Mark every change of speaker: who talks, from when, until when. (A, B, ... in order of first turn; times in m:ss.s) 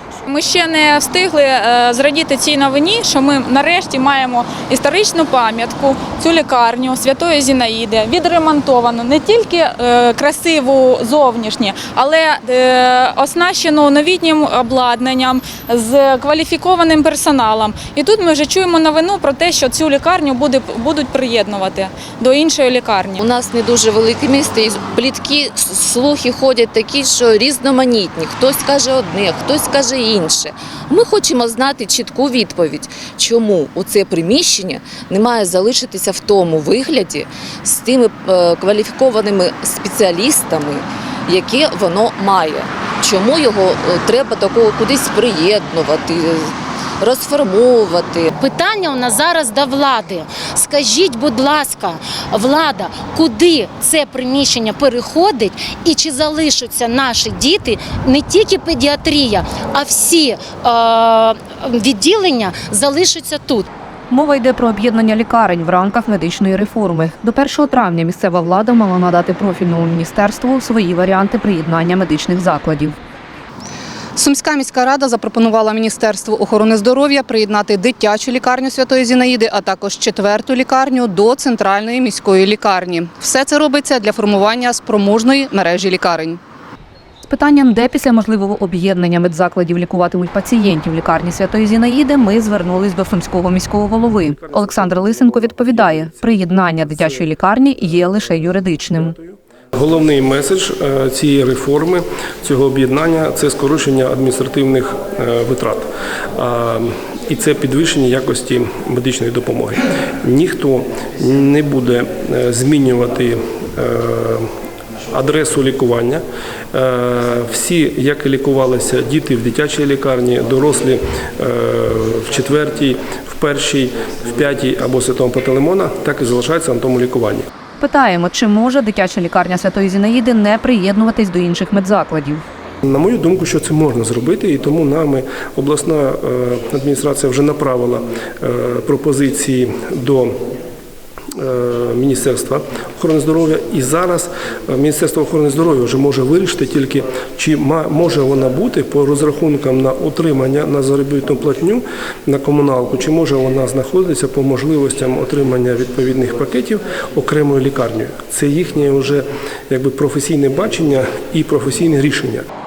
0:00.3-0:23.2 A
0:23.2-0:48.3 B
0:48.4-1:03.7 C
1:04.1-1:12.9 D
1:14.2-1:26.4 E
1:27.2-1:39.2 D
1:34.4-1:37.1 F
1:39.2-1:54.5 F
1:55.1-2:07.4 F
2:07.8-2:12.4 D
2:12.8-2:20.4 F
2:21.4-2:42.4 F